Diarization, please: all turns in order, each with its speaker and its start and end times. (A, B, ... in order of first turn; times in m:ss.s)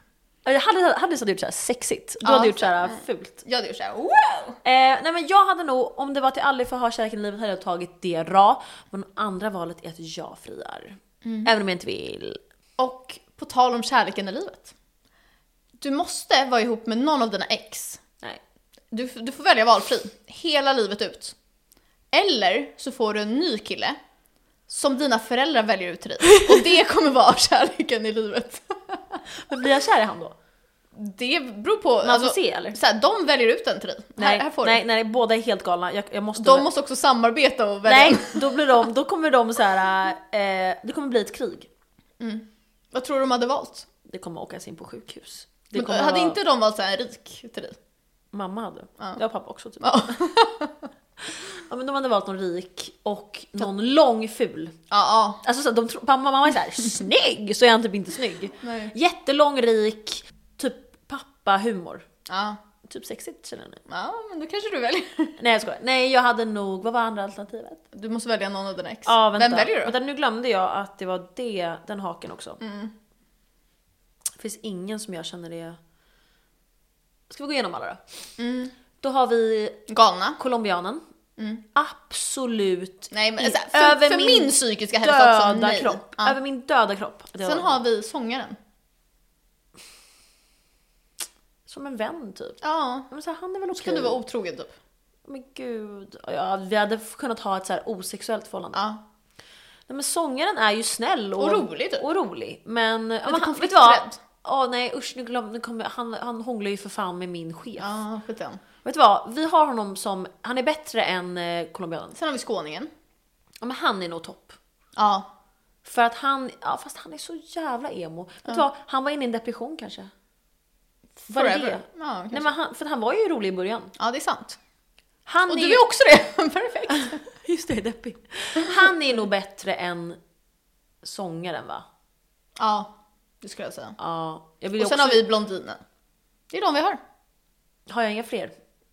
0:00.5-0:03.4 A
0:02.2-0:04.6 B
0:04.6-0:12.4 A
0:11.2-0:11.5 B
0:12.8-0:14.7 B
0:15.8-0:18.0 B
0:18.9-0:21.4 B
0:22.1-0:24.0 B
0:24.7-0:29.2 B
0:29.5-0:30.4 A
0:30.9-0:34.8 B
0:32.0-0:32.8 A
0:34.2-0:36.7 A
0:36.4-0:38.7 B
0:37.9-0:41.7 A
0:42.2-0:43.9 B
0:44.0-0:46.4 A
0:45.7-0:47.8 B
0:48.3-0:50.0 A
0:49.8-0:50.9 B
0:51.3-0:54.8 A
0:54.9-0:55.4 B
0:55.4-1:02.1 A
0:58.6-0:59.0 B
1:02.3-1:02.6 B
1:02.9-1:03.8 A
1:03.9-1:05.4 B
1:05.4-1:07.8 A
1:07.9-1:10.0 B
1:09.1-1:12.6 A
1:12.6-1:12.9 B
1:14.4-1:15.8 A
1:17.3-1:18.0 A
1:18.4-1:18.7 B
1:19.0-1:19.8 A
1:19.9-1:20.4 B
1:20.4-1:21.0 A
1:21.4-1:21.6 B
1:21.8-1:27.8 A
1:23.1-1:26.4 B
1:27.4-1:28.6 B
1:31.7-1:32.6 A
1:32.6-1:33.1 B
1:33.1-1:34.2 A
1:33.7-1:34.7 B
1:35.3-1:38.8 A
1:38.7-1:39.0 B
1:39.9-1:48.0 A
1:41.4-1:42.0 B
1:43.3-1:44.2 B
1:47.8-1:48.6 B
1:48.8-1:52.2 A
1:52.2-1:52.9 B
1:53.6-1:54.6 A
1:55.0-1:55.3 B
1:55.8-2:00.1 A
2:01.2-2:03.9 A
2:01.3-2:02.5 B
2:04.0-2:04.6 B
2:05.3-2:05.8 A
2:05.5-2:07.2 B
2:06.9-2:10.2 A
2:11.0-2:11.8 A
2:12.6-2:14.0 B
2:14.0-2:15.2 A
2:14.8-2:15.8 B
2:16.5-2:17.0 B
2:17.9-2:18.5 A